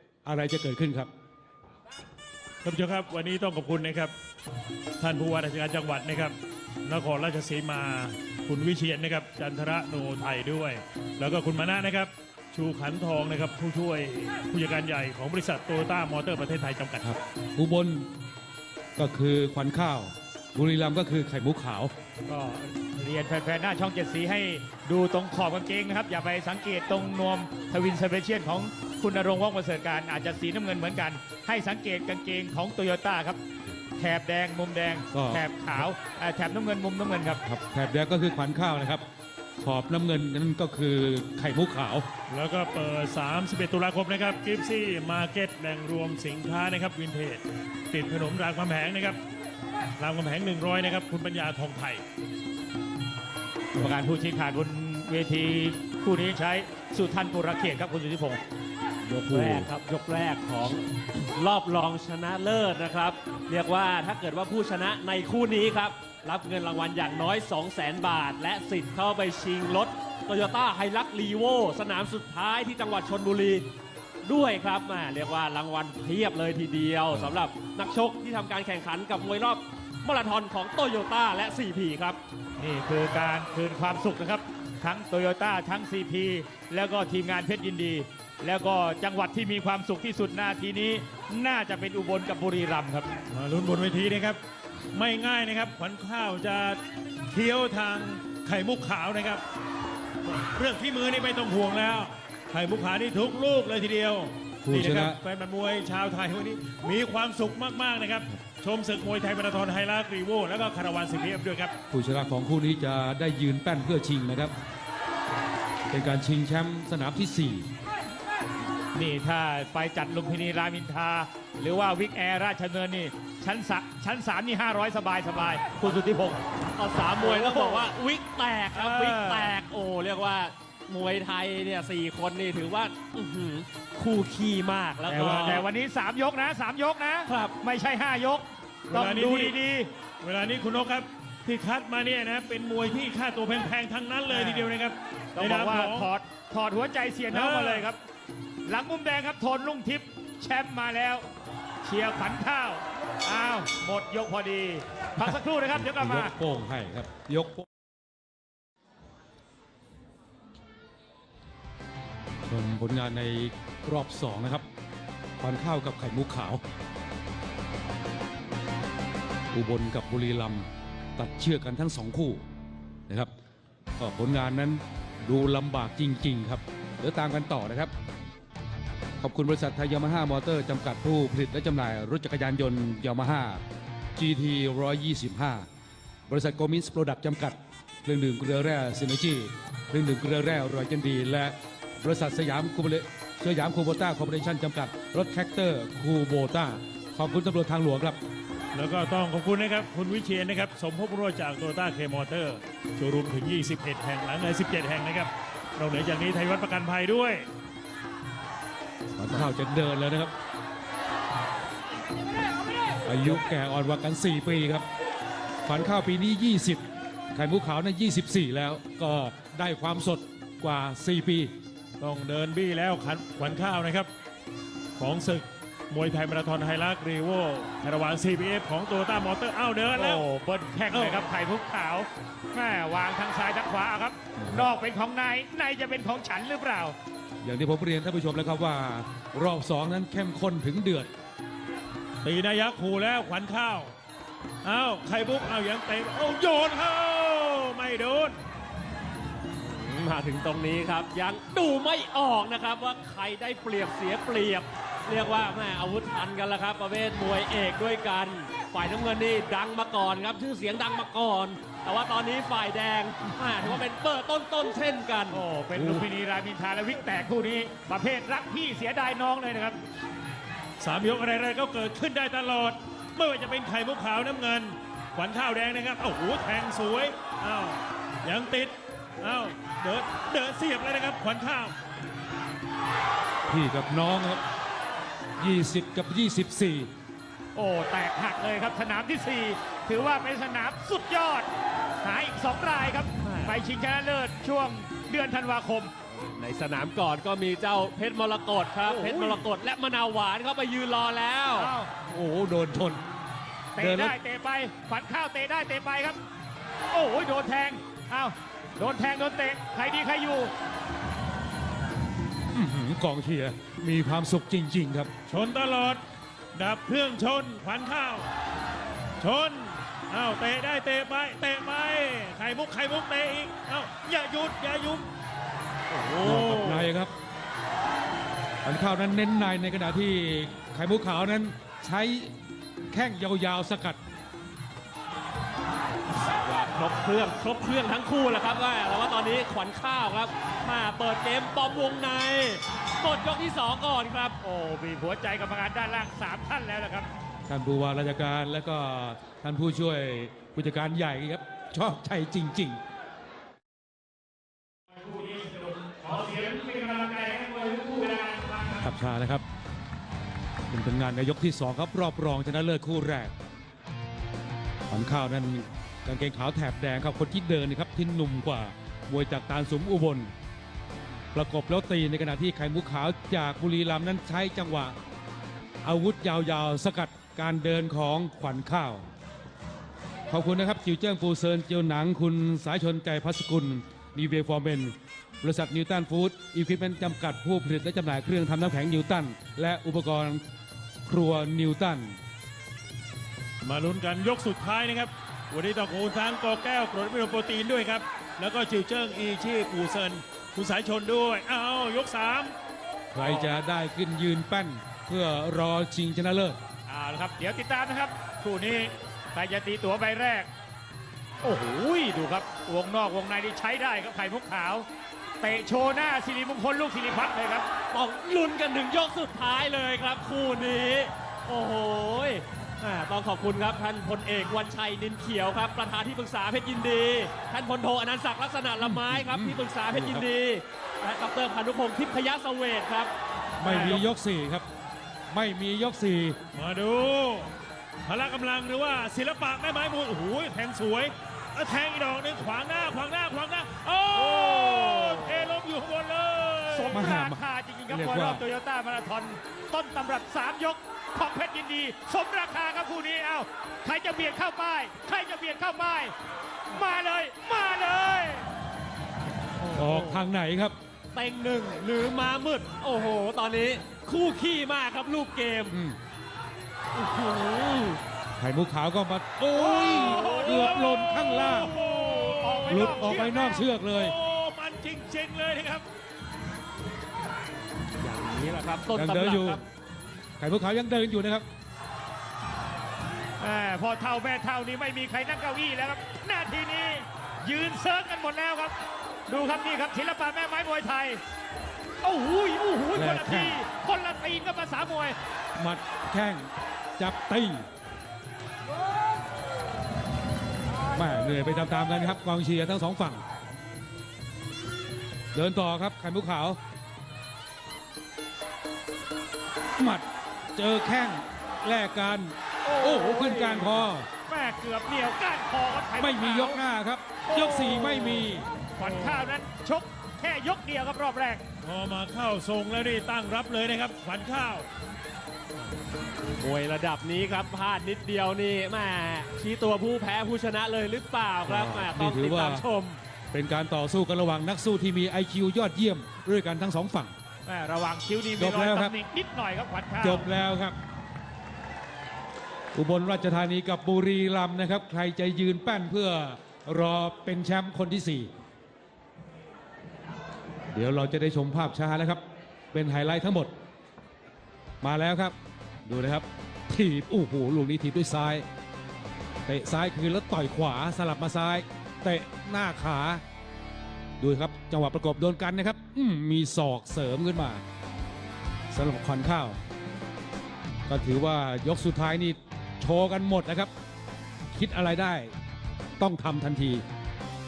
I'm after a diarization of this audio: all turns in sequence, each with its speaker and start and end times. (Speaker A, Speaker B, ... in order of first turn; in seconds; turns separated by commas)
Speaker A: 0.2-1.1, Speaker B: 2.6-4.1, Speaker B: 5.0-17.0, Speaker A: 17.0-18.1, Speaker A: 18.9-21.9, Speaker C: 22.2-33.4, Speaker C: 34.0-37.4, Speaker A: 35.1-35.4, Speaker A: 37.5-39.0, Speaker A: 39.6-42.0, Speaker B: 42.3-49.2, Speaker B: 50.0-52.0, Speaker C: 53.7-58.4, Speaker A: 59.0-59.7, Speaker D: 59.3-60.8, Speaker D: 61.3-73.7, Speaker D: 74.2-82.2, Speaker C: 82.6-93.1, Speaker B: 93.3-94.4, Speaker B: 94.9-99.4, Speaker B: 100.2-111.7, Speaker A: 104.6-105.2, Speaker A: 111.9-114.5, Speaker A: 115.9-117.7, Speaker C: 118.9-126.4, Speaker D: 126.8-135.6, Speaker C: 127.2-127.9, Speaker C: 128.8-129.5, Speaker C: 135.1-139.9, Speaker B: 135.2-135.6, Speaker D: 137.3-137.5, Speaker B: 138.9-139.6, Speaker B: 140.2-146.1, Speaker C: 144.3-144.7, Speaker C: 145.3-148.0, Speaker B: 147.3-147.9, Speaker C: 148.7-151.3, Speaker C: 151.8-156.3, Speaker A: 155.7-157.7, Speaker A: 162.4-164.6, Speaker A: 165.4-166.6, Speaker A: 169.5-172.4, Speaker A: 174.0-177.9, Speaker A: 179.2-183.6, Speaker A: 184.2-185.7, Speaker A: 186.3-198.2, Speaker B: 198.7-207.5, Speaker A: 209.2-210.3, Speaker A: 213.1-214.8, Speaker A: 215.6-216.8, Speaker A: 217.3-221.5, Speaker B: 222.0-224.1, Speaker B: 225.0-230.2, Speaker C: 229.9-236.9, Speaker B: 230.9-231.3, Speaker A: 234.4-234.6, Speaker A: 237.4-241.1, Speaker B: 242.2-243.9, Speaker B: 244.6-248.4, Speaker D: 249.6-265.4, Speaker C: 265.3-269.8, Speaker A: 265.7-266.0, Speaker B: 270.8-281.7, Speaker A: 283.5-284.4, Speaker A: 285.4-286.9, Speaker C: 287.5-291.5, Speaker C: 292.0-295.9, Speaker D: 293.2-293.6, Speaker D: 296.1-301.7, Speaker C: 298.9-299.4, Speaker C: 301.5-301.9, Speaker A: 302.1-303.0, Speaker C: 303.7-306.2, Speaker A: 303.8-304.1, Speaker C: 306.9-310.5, Speaker A: 312.5-315.1, Speaker B: 315.3-316.0, Speaker B: 316.5-318.3, Speaker B: 319.2-325.0, Speaker D: 325.9-326.9, Speaker A: 326.2-327.1, Speaker A: 328.6-332.3, Speaker A: 332.9-334.0, Speaker D: 336.2-344.4, Speaker C: 344.4-347.1, Speaker A: 347.5-352.8, Speaker C: 354.9-358.8, Speaker A: 358.7-359.4, Speaker A: 360.7-363.3, Speaker A: 364.9-370.3, Speaker A: 371.3-374.9, Speaker A: 375.8-379.0, Speaker A: 380.3-390.4, Speaker A: 391.1-392.2, Speaker B: 393.6-402.5, Speaker A: 403.1-406.6, Speaker B: 403.2-403.6, Speaker C: 406.9-410.5, Speaker C: 411.4-414.9, Speaker C: 415.4-417.7, Speaker D: 417.9-433.1, Speaker A: 428.8-430.3, Speaker A: 433.6-434.6, Speaker C: 433.6-433.9, Speaker D: 433.7-434.0, Speaker A: 435.3-436.4, Speaker B: 436.5-437.5, Speaker B: 438.1-447.0, Speaker C: 444.2-445.5, Speaker C: 446.7-456.1, Speaker A: 446.9-448.4, Speaker C: 456.7-458.5, Speaker D: 459.6-460.2, Speaker A: 459.7-460.7, Speaker D: 461.1-465.8, Speaker A: 465.7-466.0, Speaker D: 466.9-468.0, Speaker A: 468.4-471.8, Speaker C: 469.6-470.7, Speaker B: 469.8-475.8, Speaker C: 471.8-473.6, Speaker A: 472.7-474.1, Speaker D: 478.0-479.6, Speaker A: 478.9-479.6, Speaker A: 480.4-481.4, Speaker C: 483.4-488.7, Speaker C: 489.3-491.2, Speaker C: 492.0-495.1, Speaker A: 492.9-493.6, Speaker A: 495.6-497.7, Speaker A: 500.9-503.2, Speaker A: 505.3-506.6, Speaker A: 509.8-514.1, Speaker C: 512.6-513.8, Speaker C: 514.3-516.6, Speaker A: 516.0-518.5, Speaker C: 517.3-521.4, Speaker B: 521.6-524.6, Speaker D: 526.4-533.0, Speaker A: 531.5-532.7, Speaker A: 533.3-537.1, Speaker C: 537.5-540.3, Speaker A: 538.4-538.9, Speaker A: 540.0-540.8, Speaker A: 542.7-548.3, Speaker A: 550.7-553.5, Speaker A: 554.8-555.3, Speaker A: 555.9-558.4, Speaker A: 559.5-563.2, Speaker A: 564.2-567.6, Speaker A: 568.7-569.6, Speaker A: 570.9-573.7, Speaker A: 574.5-575.4, Speaker A: 576.0-576.8